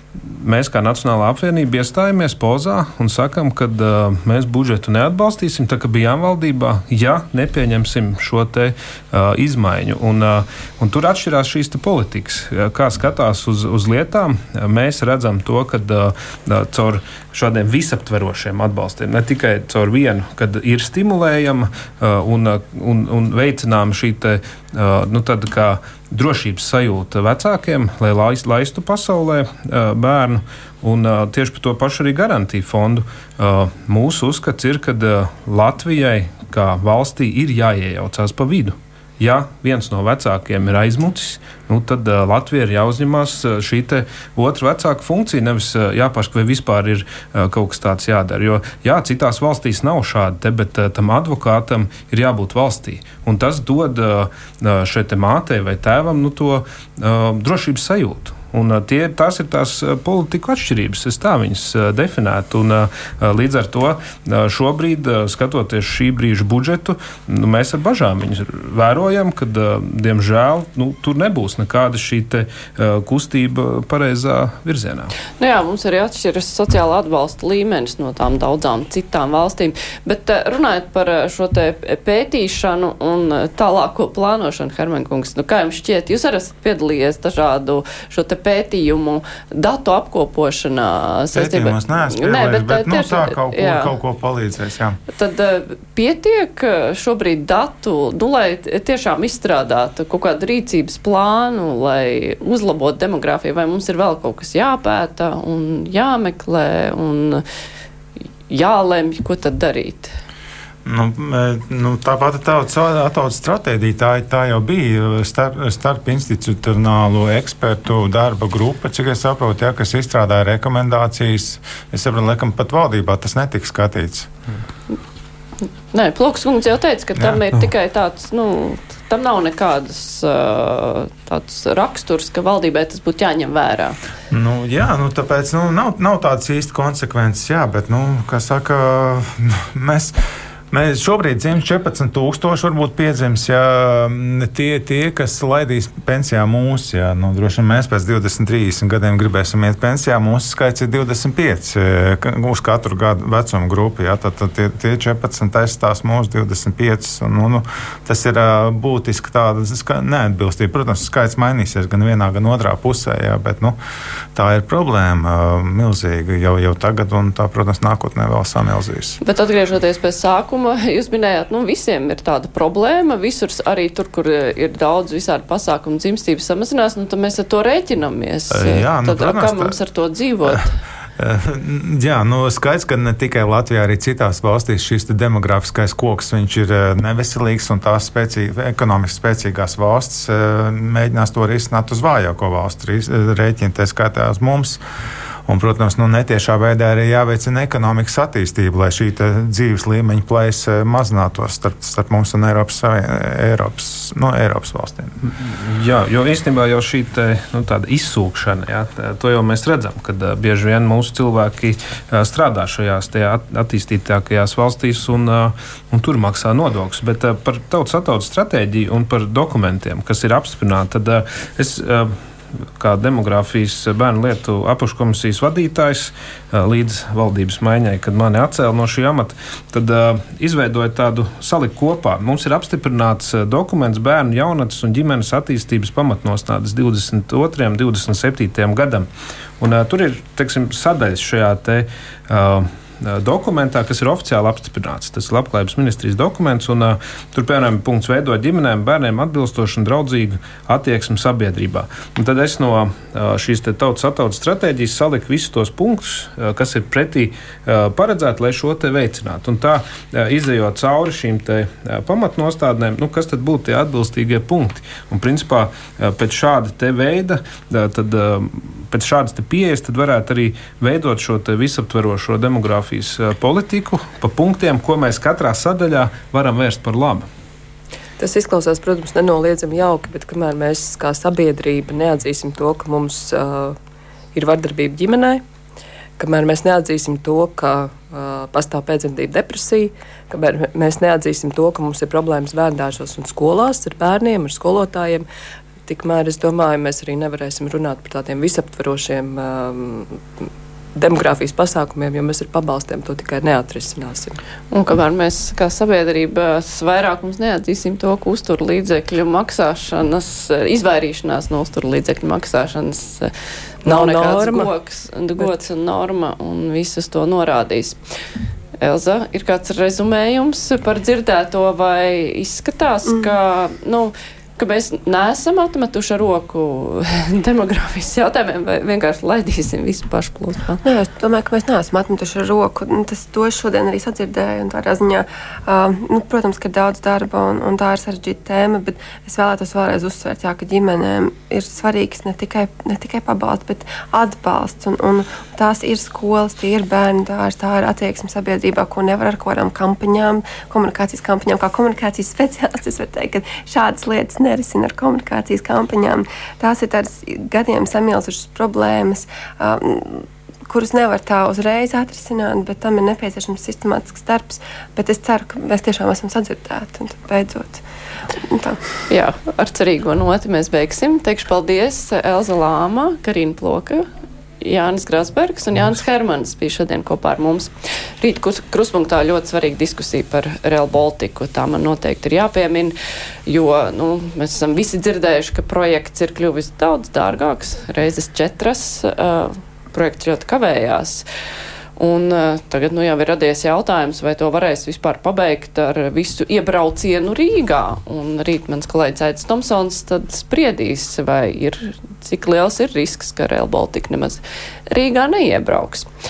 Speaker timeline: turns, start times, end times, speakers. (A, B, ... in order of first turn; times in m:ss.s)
0:00.2-1:15.1 A
1:15.4-1:33.9 B
1:31.3-1:35.0 C
1:35.1-1:47.4 B
1:48.5-1:50.1 B
1:50.8-2:04.3 C
2:05.9-2:14.0 B
2:14.3-2:20.1 C
2:20.7-2:43.8 C
2:44.3-2:49.2 C
2:49.2-3:00.8 B
2:58.5-2:59.8 C
3:01.2-3:14.8 C
3:15.5-3:25.2 C
3:25.3-3:42.2 A
3:42.8-3:59.1 A
3:59.6-4:37.3 A
4:38.2-4:43.8 D
4:44.3-4:45.4 D
4:46.2-4:55.2 D
4:55.8-5:00.2 D
5:01.0-5:04.4 D
5:04.7-5:13.3 B
5:13.8-5:14.7 D
5:13.8-5:18.0 B
5:18.8-5:30.8 B
5:30.8-6:07.8 E
6:08.4-6:08.8 E
6:09.1-6:14.0 B
6:14.6-6:22.9 B
6:23.5-6:31.2 B
6:32.0-6:46.1 B